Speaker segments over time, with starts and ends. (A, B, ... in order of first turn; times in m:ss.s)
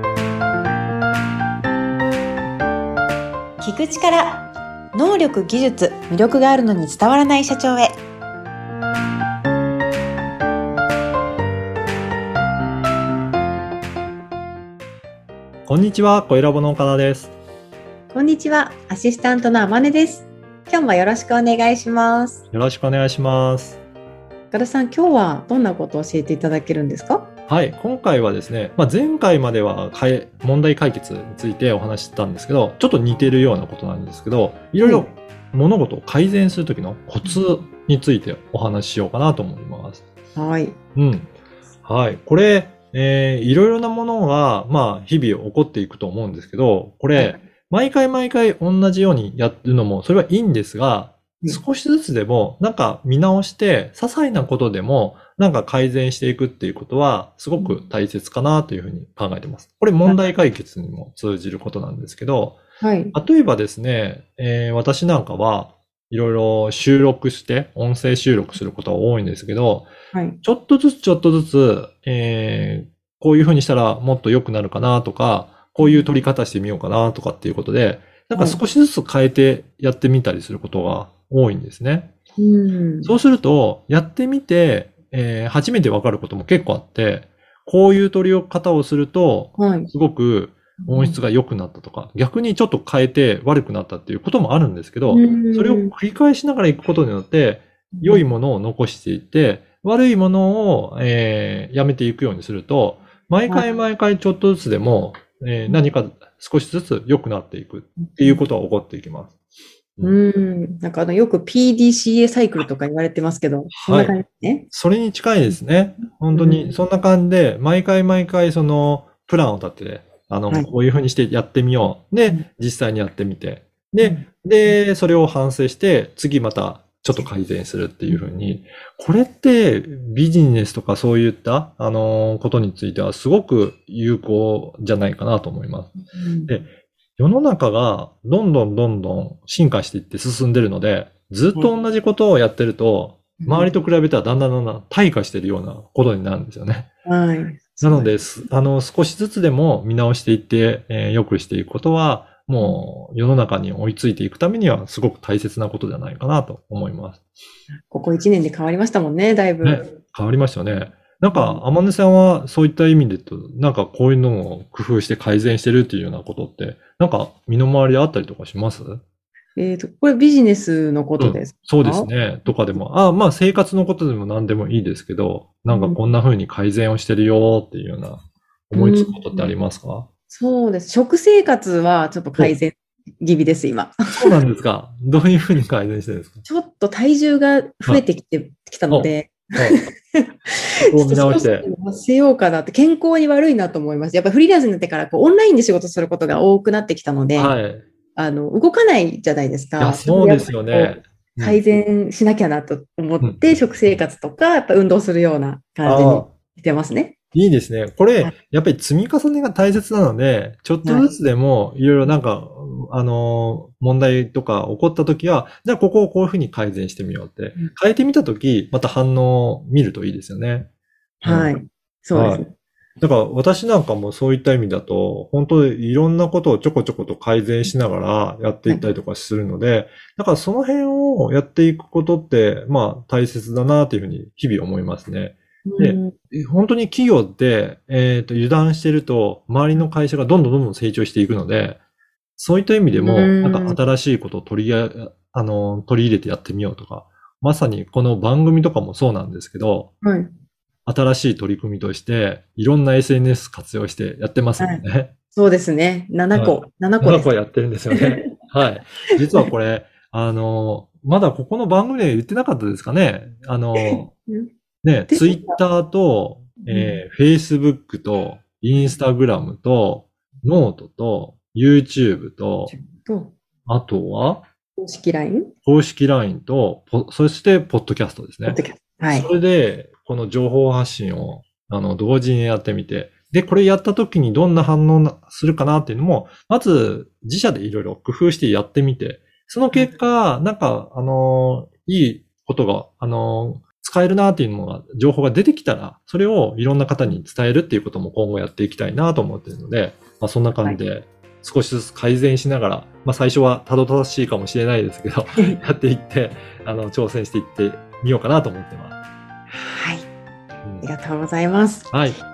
0:03.6-0:08.0 A
0:15.7-0:17.3 B
0:18.1-0:22.4 A
0:22.5-0:23.8 B
0:24.5-0:27.3 A
0:27.5-0:40.0 B
0:34.8-0:35.1 A
0:40.4-0:40.8 A
0:41.0-0:41.3 B
0:41.8-1:02.6 B
1:02.8-1:03.2 A
1:03.1-1:09.9 B
1:10.1-1:10.4 A
1:10.4-1:22.1 B
1:15.8-1:16.1 A
1:18.3-1:18.6 A
1:22.4-1:23.1 A
1:23.0-1:49.3 B
1:29.6-1:29.9 A
1:30.8-1:31.2 A
1:35.1-1:35.9 A
1:38.0-1:38.3 A
1:43.5-1:43.7 A
1:48.0-1:48.5 A
1:50.0-1:54.7 A
1:53.7-1:54.2 B
1:54.7-2:15.9 B
1:56.3-1:56.7 A
2:04.0-2:04.3 A
2:16.1-2:16.5 A
2:17.2-2:26.9 B
2:23.4-2:23.7 A
2:27.0-2:28.2 A
2:27.8-2:37.2 B
2:32.6-2:32.9 A
2:37.9-2:39.9 A
2:39.6-2:49.0 B
2:41.3-2:41.6 A
2:49.6-2:52.1 A
2:51.2-3:00.1 B
2:55.7-2:56.0 A
2:58.8-2:59.5 A
3:00.3-3:04.3 A
3:04.2-3:06.4 B
3:06.4-3:17.6 A
3:08.9-3:09.8 B
3:10.8-3:11.7 B
3:17.4-3:17.8 B
3:18.2-3:27.2 A
3:19.8-3:21.6 B
3:23.2-3:23.5 B
3:25.8-3:26.3 B
3:27.3-3:40.7 B
3:41.2-3:42.5 A
3:41.2-3:41.5 B
3:42.1-3:42.4 B
3:43.0-4:01.8 B
3:55.7-3:56.1 A
4:02.4-4:09.9 B
4:03.0-4:03.8 A
4:10.0-4:10.3 A
4:10.9-4:15.1 B
4:14.6-4:17.3 A
4:16.3-4:24.1 B
4:17.9-4:18.3 A
4:23.8-4:24.5 A
4:24.8-4:32.7 B
4:25.1-4:25.6 A
4:26.7-4:27.0 A
4:32.7-4:33.4 A
4:33.7-4:34.4 B
4:34.8-4:35.5 A
4:35.6-5:09.0 B
4:38.5-4:39.3 A
4:49.7-4:50.0 A
5:09.6-5:10.1 A
5:10.8-5:12.0 A
5:11.9-5:12.2 B